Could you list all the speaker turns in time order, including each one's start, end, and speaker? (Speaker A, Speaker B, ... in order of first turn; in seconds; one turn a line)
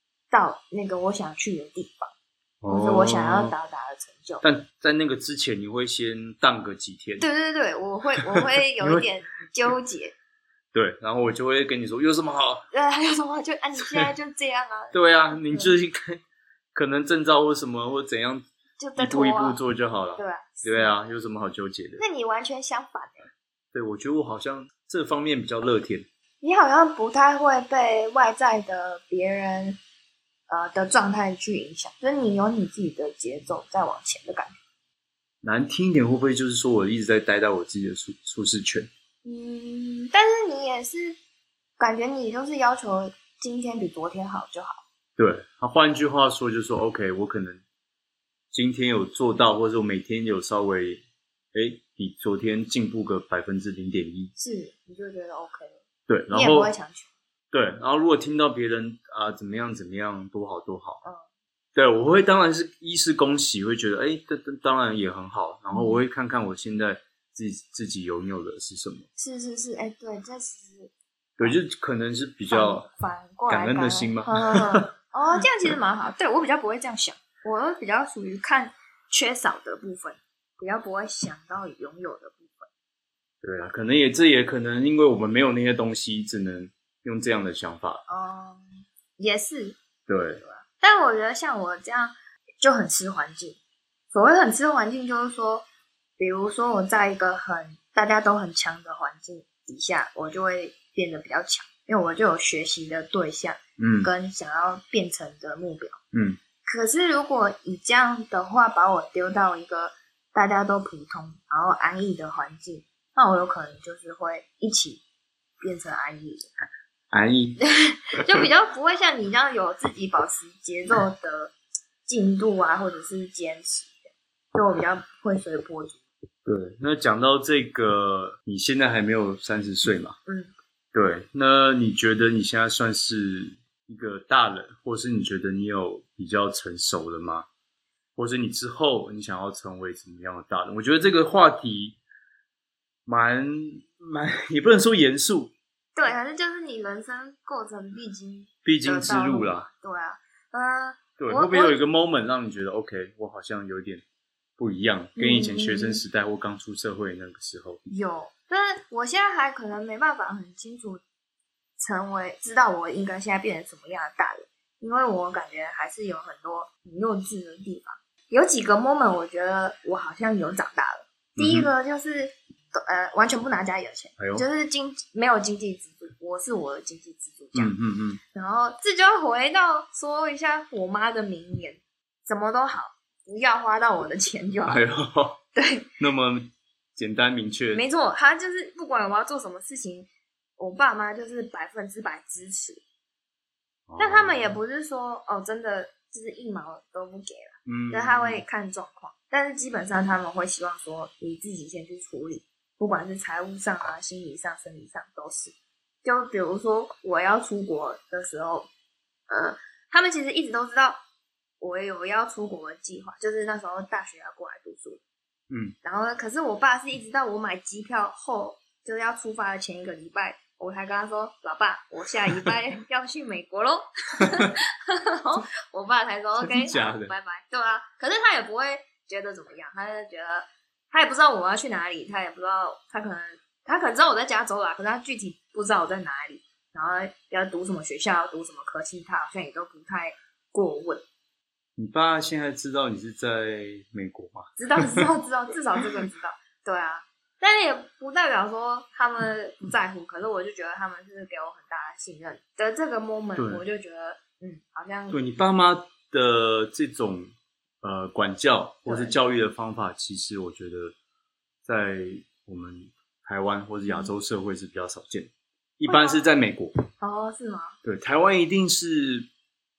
Speaker A: 0.3-2.1
Speaker B: 2.6-3.5
Speaker A: 2.7-4.4
Speaker B: 4.4-7.2
Speaker A: 7.2-10.1
Speaker B: 8.2-9.1
Speaker B: 10.7-12.7
Speaker A: 12.7-15.8
Speaker B: 14.9-16.2
Speaker B: 16.7-18.4
Speaker A: 18.8-19.6
Speaker B: 19.0-22.0
Speaker A: 20.2-20.9
Speaker A: 22.0-23.3
Speaker B: 23.7-26.1
Speaker A: 26.4-29.8
Speaker A: 30.5-34.5
Speaker B: 35.4-38.9
Speaker A: 39.2-41.2
Speaker A: 41.8-44.8
Speaker B: 45.2-47.6
Speaker B: 48.5-51.0
Speaker B: 51.5-54.3
Speaker A: 54.4-55.8
Speaker B: 56.1-56.7
Speaker A: 56.3-57.1
Speaker B: 57.5-61.0
Speaker B: 61.7-69.0
Speaker A: 65.7-66.0
Speaker A: 69.2-71.6
Speaker B: 71.4-72.9
Speaker A: 72.5-82.7
Speaker B: 73.5-74.9
Speaker B: 83.4-88.0
Speaker A: 88.1-89.8
Speaker B: 90.1-90.4
Speaker A: 90.4-93.6
Speaker A: 94.1-95.6
Speaker A: 96.2-106.0
Speaker B: 103.8-104.1
Speaker B: 106.1-106.4
Speaker A: 106.6-115.0
Speaker A: 115.6-116.5
Speaker B: 117.1-117.6
Speaker A: 117.6-121.5
Speaker A: 122.1-126.0
Speaker B: 126.4-130.2
Speaker A: 130.2-130.5
Speaker B: 130.9-137.5
Speaker B: 138.2-142.0
Speaker B: 143.1-145.5
Speaker A: 145.9-151.8
Speaker B: 148.6-149.7
Speaker B: 151.2-154.0
Speaker B: 154.6-157.8
Speaker A: 155.2-156.0
Speaker A: 157.9-161.0
Speaker A: 161.8-177.7
Speaker B: 171.3-171.7
Speaker B: 174.2-174.4
Speaker B: 177.5-178.2
Speaker A: 178.3-184.8
Speaker B: 184.7-185.4
Speaker A: 185.5-185.9
Speaker B: 186.0-187.8
Speaker A: 187.7-192.8
Speaker B: 193.9-194.6
Speaker A: 194.0-208.7
Speaker B: 197.7-198.4
Speaker A: 209.3-211.0
Speaker A: 211.6-215.0
Speaker B: 215.5-215.7
Speaker A: 215.8-241.0
Speaker B: 222.3-222.5
Speaker B: 224.2-224.5
Speaker B: 226.4-227.1
Speaker B: 241.8-245.1
Speaker A: 244.6-255.2
Speaker B: 253.3-253.6
Speaker B: 255.1-260.9
Speaker A: 258.9-259.2
Speaker B: 261.6-266.7
Speaker A: 265.9-266.2
Speaker A: 267.0-267.8
Speaker B: 267.8-269.3